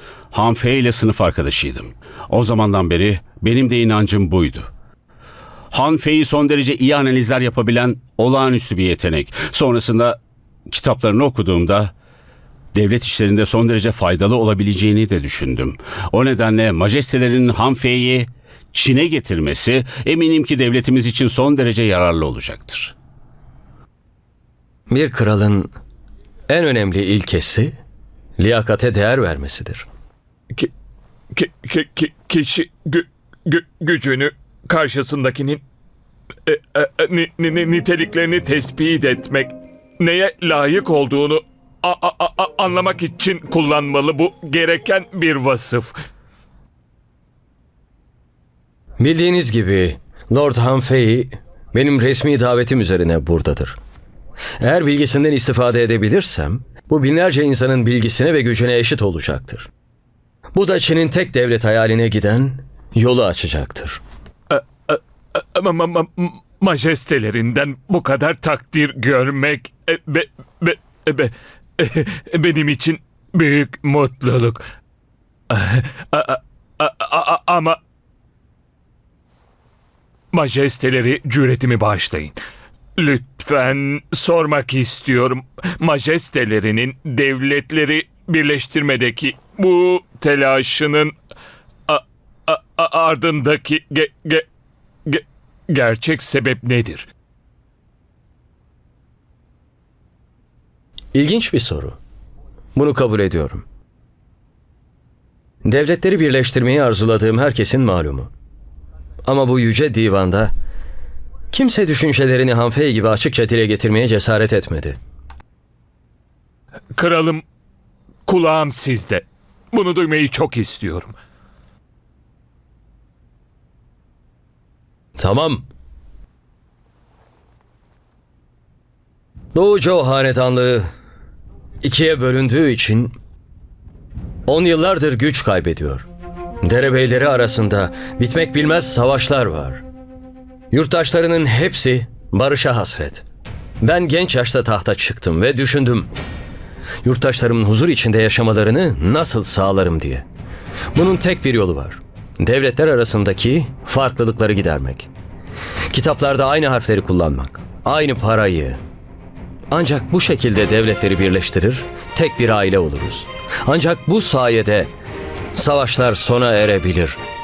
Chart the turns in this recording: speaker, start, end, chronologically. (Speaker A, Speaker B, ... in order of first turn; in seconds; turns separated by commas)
Speaker A: 0.3-4.7, Speaker A: 5.7-10.2, Speaker A: 10.7-11.9, Speaker A: 12.7-22.9, Speaker B: 24.9-25.7, Speaker B: 26.5-27.8, Speaker B: 28.4-29.9, Speaker C: 31.3-35.6, Speaker C: 36.5-45.9, Speaker B: 49.0-53.8, Speaker B: 54.6-59.7, Speaker B: 60.5-64.0, Speaker C: 64.5-74.7, Speaker C: 75.5-77.8, Speaker C: 80.3-82.4, Speaker C: 83.0-91.2, Speaker C: 91.9-94.5, Speaker C: 95.1-97.1, Speaker B: 101.1-102.0, Speaker B: 102.8-103.7, Speaker B: 105.6-108.3, Speaker B: 109.2-110.5, Speaker B: 111.5-115.0, Speaker C: 117.0-117.5, Speaker C: 118.3-121.2, Speaker B: 125.2-125.7, Speaker B: 129.5-130.9, Speaker B: 131.8-133.2, Speaker B: 134.5-136.1, Speaker B: 136.6-139.8, Speaker B: 140.7-143.2, Speaker B: 143.8-146.1, Speaker B: 147.0-150.3, Speaker B: 150.9-155.1, Speaker B: 155.9-158.8, Speaker B: 159.7-164.9, Speaker B: 165.6-167.2